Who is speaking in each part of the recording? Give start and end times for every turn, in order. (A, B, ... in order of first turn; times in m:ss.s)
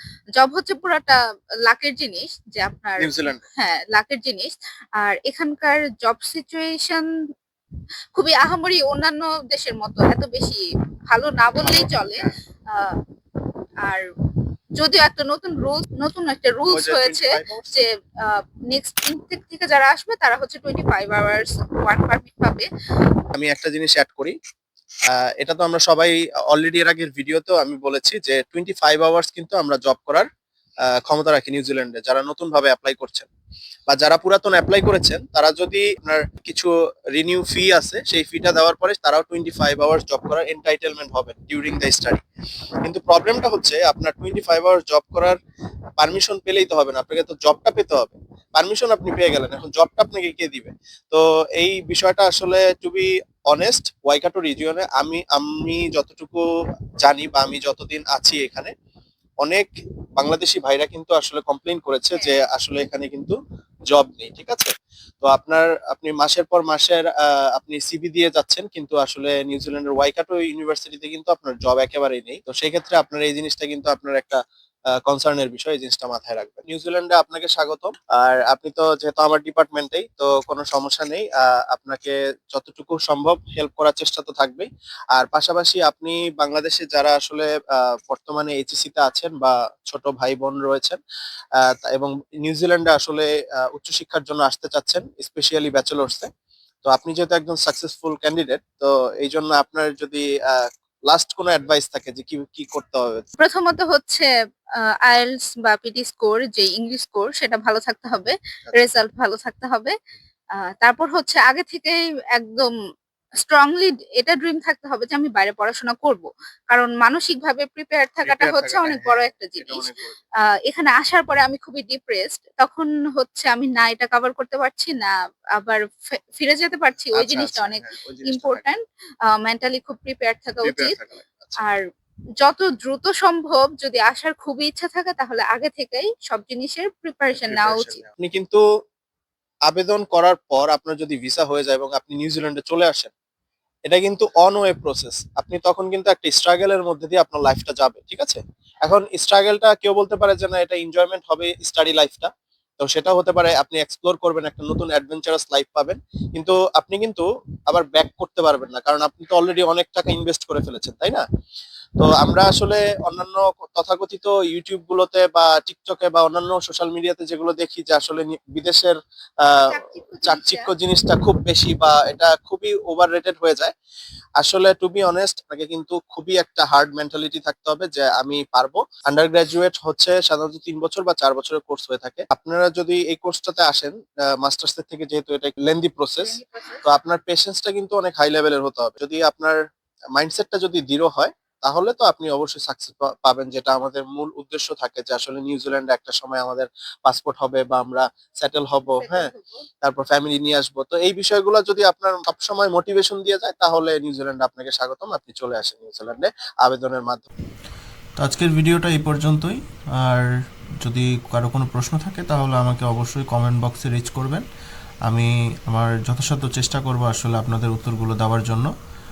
0:00.4-0:07.0 A
0:03.0-0:03.4 B
0:08.1-0:13.0 A
0:11.6-0:12.3 B
0:14.8-0:22.7 A
0:16.7-0:17.7 B
0:23.3-0:24.4 B
0:25.2-0:30.3 B
0:30.9-0:33.3 B
0:33.9-0:42.2 B
0:42.8-0:45.4 B
0:46.0-0:56.4 B
0:57.0-0:58.7 B
0:59.4-1:03.4 B
1:02.1-1:02.4 A
1:03.9-1:14.4 B
1:15.0-1:31.0 B
1:31.6-1:36.3 B
1:36.8-1:43.2 B
1:43.4-1:44.3 A
1:45.0-1:49.9 A
1:50.8-1:52.7 A
1:53.4-1:59.8 A
1:58.2-2:00.2 B
2:00.7-2:05.8 A
2:06.4-2:08.8 A
2:07.1-2:08.7 B
2:09.3-2:10.9 A
2:10.6-2:11.6 B
2:12.4-2:18.0 A
2:17.3-2:18.6 B
2:19.7-2:23.1 B
2:23.9-2:41.2 B
2:42.0-2:49.6 B
2:49.7-2:50.7 A
2:50.2-2:53.7 B
2:54.4-3:09.6 B
3:06.2-3:06.8 A
3:10.2-3:19.3 B
3:18.8-3:19.6 A
3:19.8-3:27.3 B
3:28.2-3:34.4 C
3:35.1-3:38.7 C